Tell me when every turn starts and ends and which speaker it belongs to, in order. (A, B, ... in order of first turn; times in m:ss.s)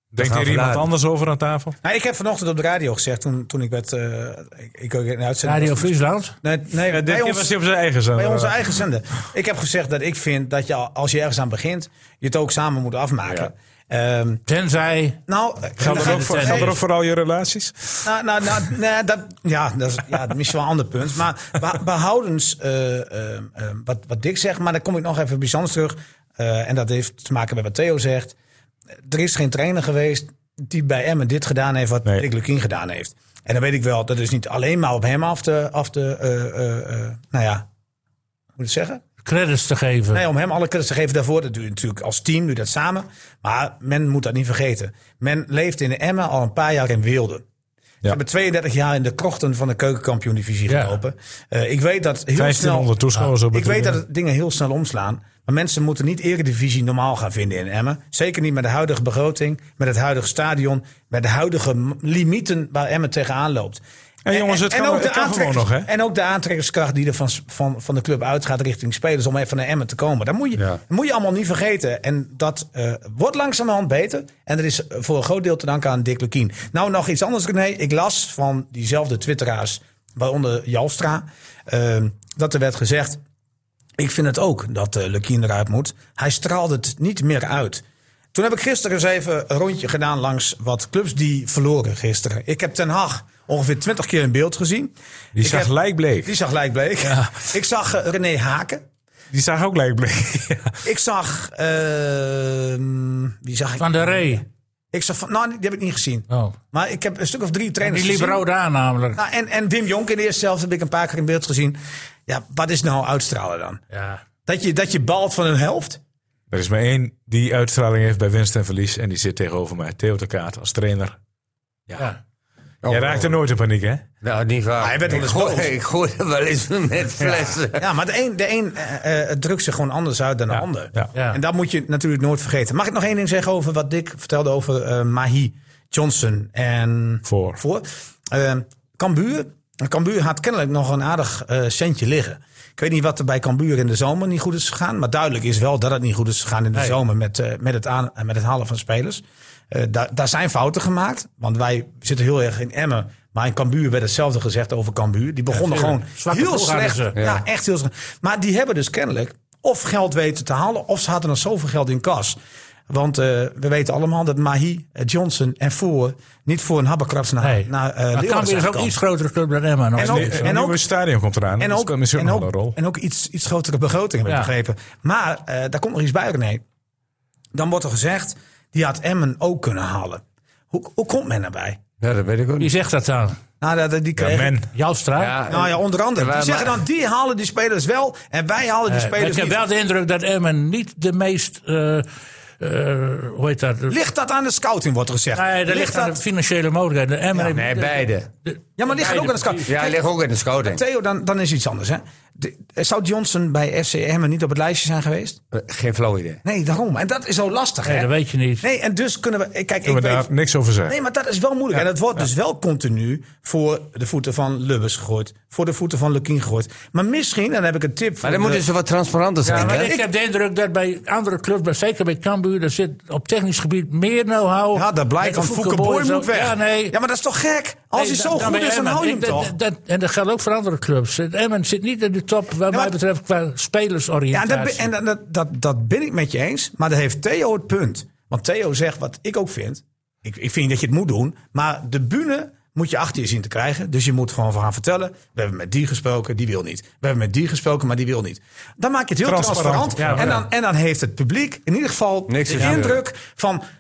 0:00.1-0:01.8 A
0:00.2-0:00.9 B
0:01.8-0:07.5 C
0:05.4-0:06.4 D
0:06.9-0:08.7 A
0:08.2-0:14.4 C
0:14.5-0:15.2 D
0:15.3-0:16.8 C
0:15.8-0:16.8 D
0:15.8-0:18.0 A
0:18.0-0:28.4 C
0:29.1-0:37.6 C
0:38.6-0:39.0 C
0:39.2-0:40.2 D
0:40.1-0:47.4 C
0:48.0-0:52.9 C
0:50.7-0:51.0 D
0:52.4-0:54.0 A
0:53.5-1:23.2 C
1:04.3-1:05.9 A
1:24.0-1:27.8 C
1:28.3-1:38.8 C
1:35.4-1:36.3 A
1:37.0-1:37.5 A
1:39.3-1:40.8 A
1:40.8-1:48.4 C
1:43.8-1:44.4 D
1:46.3-1:46.6 D
1:47.8-1:49.2 D
1:49.2-1:53.8 C
1:53.9-1:54.2 D
1:54.5-1:56.0 C
1:56.5-2:01.2 A
2:02.8-2:03.4 B
2:02.9-2:04.0 A
2:04.2-2:07.9 B
2:04.8-2:05.7 C
2:07.3-2:42.4 C
2:11.1-2:11.4 D
2:17.3-2:17.6 A
2:35.5-2:37.2 D
2:37.2-2:37.4 B
2:42.9-2:49.0 C
2:47.4-2:50.6 D
2:50.0-2:50.8 C
2:50.0-2:52.8 A
2:51.6-2:56.6 C
2:54.3-2:54.5 D
2:57.5-3:01.8 C
3:02.0-3:02.7 B
3:02.6-3:03.4 D
3:03.6-3:04.5 C
3:04.2-3:04.7 A
3:04.7-3:05.3 D
3:05.2-3:06.8 B
3:05.5-3:09.6 C
3:08.9-3:12.1 D
3:12.6-3:14.0 D
3:13.9-3:16.2 C
3:15.4-3:19.7 D
3:17.5-3:18.3 B
3:18.8-3:20.0 C
3:19.7-3:20.8 B
3:20.6-3:25.4 C
3:25.5-3:26.4 B
3:26.4-3:28.1 C
3:27.8-3:28.6 D
3:28.6-3:30.3 C
3:29.9-3:30.9 A
3:30.9-3:38.6 C
3:38.2-3:39.9 B
3:39.4-3:47.0 D
3:39.5-3:40.1 C
3:44.8-3:49.5 C
3:48.0-3:54.9 D
3:54.3-4:13.6 C
4:09.2-4:10.4 A
4:10.0-4:10.4 D
4:12.3-4:13.0 B